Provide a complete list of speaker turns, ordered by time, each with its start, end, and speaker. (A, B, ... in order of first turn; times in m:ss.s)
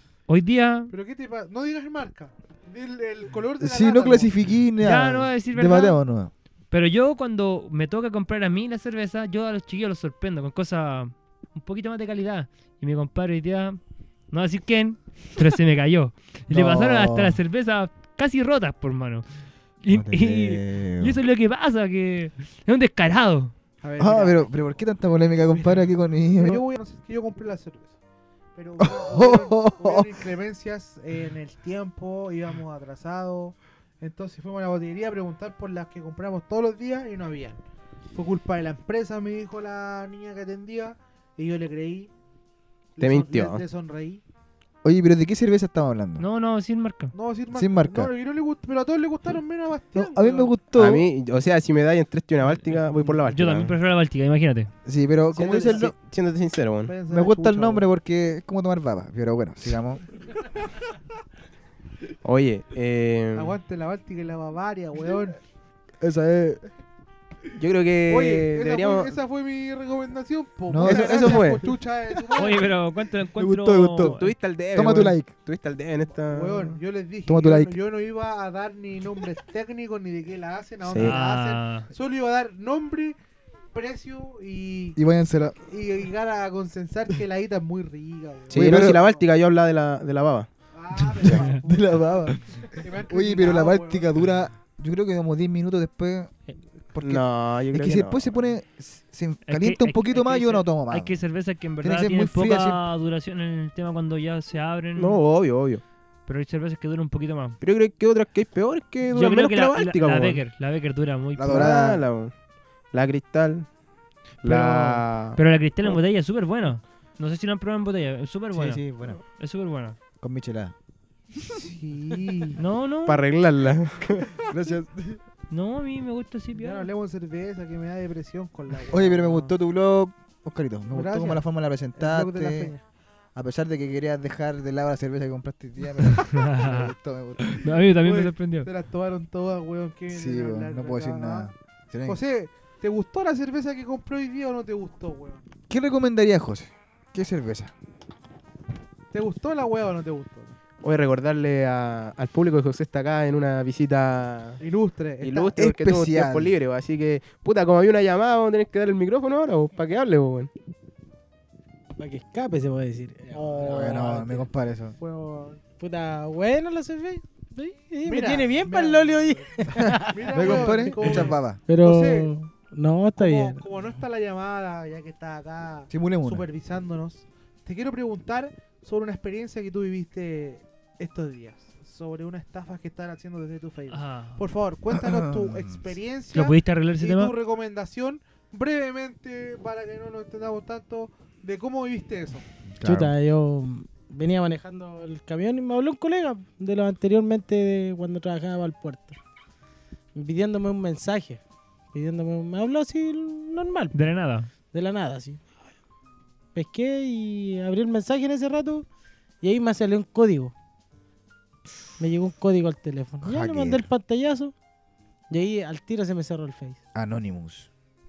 0:00.3-0:00.9 A
0:00.9-0:04.3 B
0:03.6-0:06.3 C
0:04.8-0:06.0 A
0:06.7-0:13.8 A
0:14.3-0:19.2 A
0:16.5-0:17.4 C
0:19.8-0:23.5 A
0:19.9-0:21.2 C
0:23.8-0:24.5 B
0:24.0-0:26.6 C
0:25.4-0:27.9 B
0:28.5-0:37.6 B
0:28.8-0:30.2 C
0:38.1-0:42.1 B
0:43.0-0:44.2 B
0:43.0-0:43.6 D
0:44.8-0:46.2 C
0:46.2-0:47.1 A
0:47.1-0:50.5 B
0:47.5-0:48.1 C
0:49.9-0:51.1 C
0:50.7-0:53.8 D
0:53.3-0:54.7 A
0:54.8-0:55.9 C
0:55.3-0:55.9 B
0:55.4-0:56.9 D
0:56.8-0:57.8 B
0:57.1-1:00.0 C
1:02.2-1:03.6 D
1:03.3-1:05.4 B
1:06.0-1:06.6 C
1:07.6-1:09.1 D
1:08.1-1:12.7 B
1:10.7-1:11.7 C
1:10.8-1:11.6 D
1:12.4-1:14.3 A
1:13.3-1:15.3 C
1:14.0-1:16.8 D
1:16.2-1:23.2 B
1:17.2-1:17.8 C
1:20.8-1:21.2 D
1:21.0-1:21.9 A
1:23.7-1:25.0 B
1:25.0-1:25.6 C
1:25.7-1:29.2 B
1:28.5-1:29.0 C
1:28.5-1:30.5 D
1:30.7-1:34.2 B
1:31.2-1:36.4 C
1:31.2-1:31.6 A
1:36.9-1:41.2 C
1:37.0-1:38.4 D
1:39.4-1:45.2 A
1:41.8-1:42.8 C
1:45.0-1:45.8 D
1:46.3-1:47.6 A
1:47.6-1:50.4 D
1:49.1-1:51.8 A
1:51.4-1:52.0 C
1:51.4-1:52.3 D
1:52.9-1:53.7 D
1:54.4-1:55.4 D
1:54.4-1:58.8 A
1:58.5-1:59.2 C
1:59.3-2:00.0 A
2:00.2-2:00.7 C
2:01.4-2:02.5 C
2:01.6-2:02.6 B
2:02.6-2:03.2 A
2:03.0-2:04.2 D
2:04.3-2:05.2 C
2:05.5-2:06.9 A
2:06.5-2:09.5 B
2:08.9-2:12.7 C
2:10.9-2:12.8 B
2:13.3-2:17.7 C
2:16.2-2:16.9 A
2:17.5-2:18.7 A
2:17.8-2:21.5 B
2:20.1-2:22.2 C
2:22.0-2:25.4 B
2:25.7-2:27.7 C
2:29.1-2:30.6 B
2:30.8-2:34.6 D
2:34.6-2:35.5 B
2:35.2-2:40.5 D
2:35.5-2:36.6 C
2:42.0-2:44.4 E
2:43.3-2:44.2 B
2:43.6-2:45.0 C
2:45.0-2:45.6 B
2:45.8-2:53.6 E
2:48.0-2:52.3 B
2:49.8-2:51.6 C
2:53.2-3:12.4 B
2:55.9-2:56.4 C
3:03.9-3:04.4 A
3:04.9-3:05.8 C
3:06.3-3:07.3 A
3:12.7-3:13.1 C
3:12.8-3:19.2 E
3:20.1-3:21.4 E
3:21.9-3:24.0 E
3:23.9-3:24.5 A
3:24.7-3:25.5 E
3:26.5-3:28.8 E
3:29.4-3:30.5 E
3:32.0-3:34.5 E
3:33.2-3:33.8 C
3:35.3-3:36.8 E
3:36.9-3:37.7 C